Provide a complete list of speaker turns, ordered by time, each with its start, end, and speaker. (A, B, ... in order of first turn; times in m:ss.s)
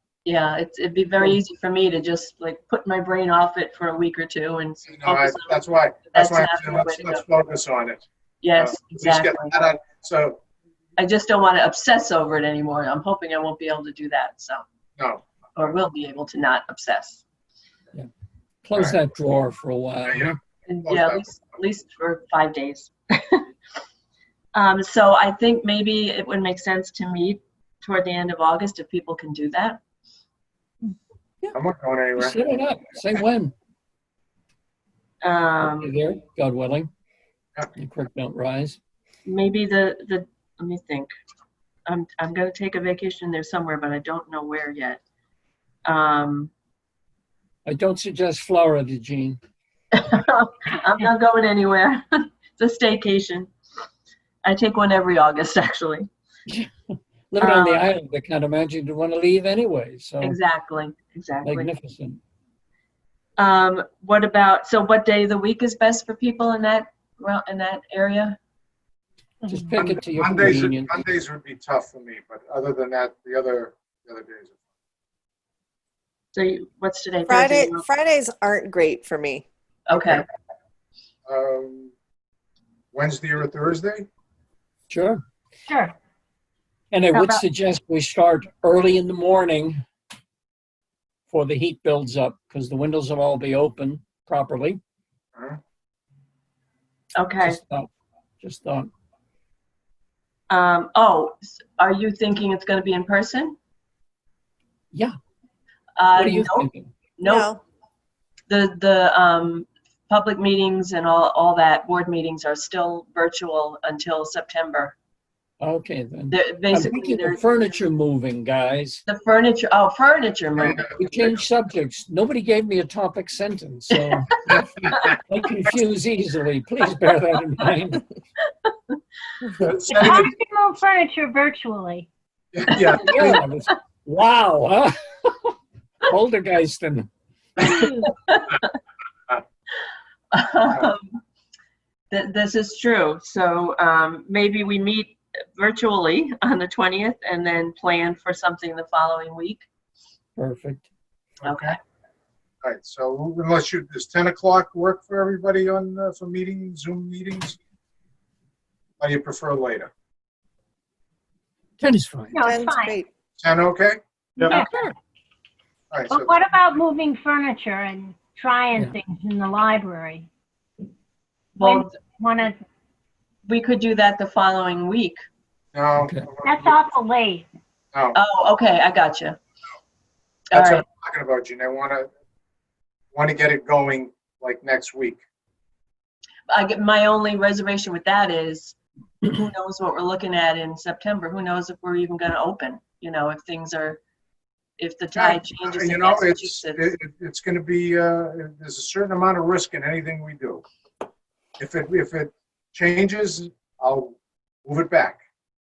0:00.2-0:07.2 A
0:04.9-0:08.0 B
0:08.4-0:09.7 A
0:08.6-0:10.4 B
0:11.0-0:14.6 A
0:15.0-0:15.2 B
0:15.6-0:17.2 A
0:18.6-0:20.4 C
0:20.0-0:21.2 B
0:20.7-0:23.5 A
0:24.6-0:29.8 A
0:31.5-0:32.4 B
0:32.2-0:33.5 C
0:35.2-0:35.9 A
0:35.6-0:36.9 C
0:37.8-0:38.8 C
0:39.2-0:41.1 A
0:41.9-0:45.0 A
0:45.8-0:46.5 A
0:47.7-0:49.4 C
0:49.9-0:53.5 A
0:54.4-0:56.1 A
0:57.3-1:00.4 C
0:57.4-0:57.9 A
1:00.2-1:01.7 A
1:01.4-1:02.2 C
1:03.4-1:08.4 A
1:09.4-1:09.8 D
1:09.5-1:11.0 C
1:09.8-1:14.6 B
1:16.3-1:17.8 A
1:17.3-1:19.4 E
1:19.9-1:20.2 A
1:21.3-1:21.9 B
1:22.9-1:24.1 B
1:24.9-1:25.2 C
1:25.7-1:25.9 D
1:26.9-1:29.8 C
1:27.1-1:27.4 A
1:31.3-1:34.8 C
1:35.3-1:35.6 B
1:37.2-1:37.6 A
1:37.4-1:38.9 C
1:40.5-1:43.6 A
1:46.0-1:47.6 A
1:46.1-1:46.9 C
1:47.2-1:47.6 E
1:48.5-1:54.9 A
1:55.6-1:59.0 C
1:56.3-1:57.8 A
1:59.1-2:00.9 A
2:00.6-2:01.3 B
2:00.9-2:08.1 C
2:04.5-2:05.0 B
2:09.6-2:10.3 B
2:09.9-2:12.1 D
2:12.5-2:13.4 B
2:12.9-2:17.1 C
2:17.6-2:18.7 A
2:20.3-2:21.2 A
2:22.1-2:29.6 A
2:30.4-2:30.8 C
2:31.4-2:31.8 B
2:31.4-2:31.7 A
2:32.6-2:37.6 B
2:39.0-2:39.9 B
2:41.8-2:42.4 C
2:42.3-2:43.0 D
2:42.4-2:43.1 E
2:43.4-2:44.0 B
2:44.4-2:44.7 D
2:44.6-2:44.9 C
2:45.9-2:46.4 B
2:46.1-2:50.3 D
2:51.6-2:51.9 A
2:51.6-2:52.6 D
2:53.4-2:55.2 A
2:55.7-2:56.8 B
2:56.4-2:57.5 D
2:57.9-2:58.2 B
2:58.1-2:59.4 A
3:00.5-3:00.8 A
3:00.5-3:02.1 B
3:03.1-3:05.2 B
3:06.5-3:14.0 A
3:14.8-3:16.9 A
3:15.2-3:20.6 B
3:21.6-3:25.2 B